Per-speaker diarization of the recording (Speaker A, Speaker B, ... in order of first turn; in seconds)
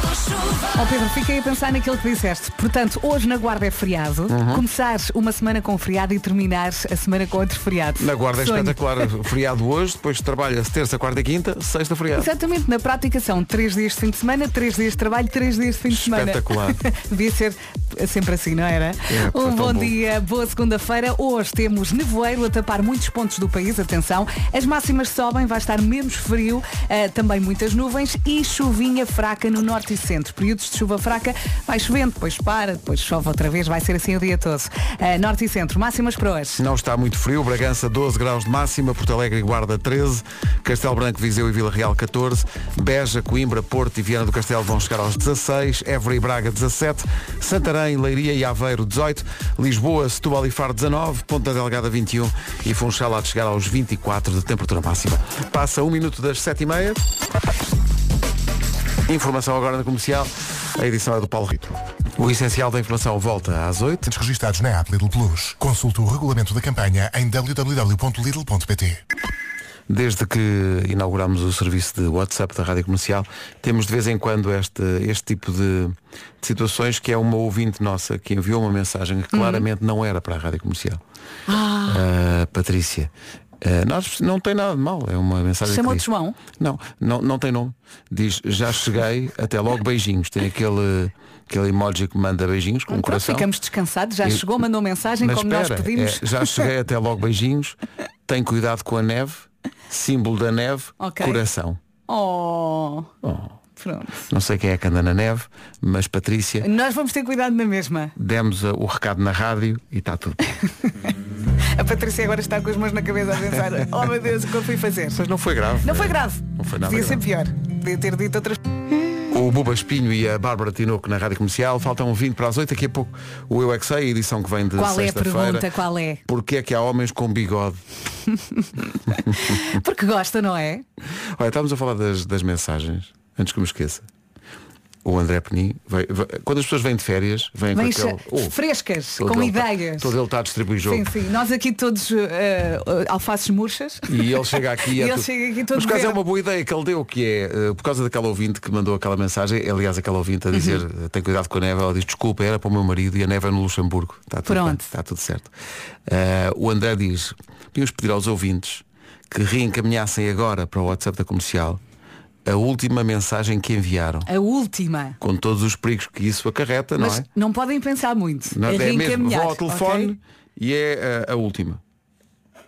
Speaker A: 0.7-9.0, 12.2-36.6, 79.3-79.7, 81.5-82.0, 85.6-86.4, 92.9-96.5, 101.0-101.4, 102.1-103.1, 103.8-104.2, 106.6-108.1, 111.7-115.2, 115.8-119.2, 124.8-126.2, 128.3-130.8, 137.7-140.1, 140.8-144.2, 144.9-146.2, 150.5-150.8, 154.5-154.9, 164.3-165.2, 167.0-170.2
Speaker B: 4.3-4.6, 8.0-12.3, 15.9-16.8, 19.1-19.9, 36.6-57.0, 59.0-64.1, 69.9-81.0, 81.9-93.5, 95.2-101.8, 103.2-103.5, 104.3-106.7, 108.2-110.4, 115.1-117.2, 119.3-125.7, 126.2-127.8, 131.3-134.1, 135.0-138.6, 139.2-141.1, 144.1-155.5, 156.1-161.8, 162.4-164.3, 165.2-167.2, 168.5-171.8
Speaker C: 64.1-69.0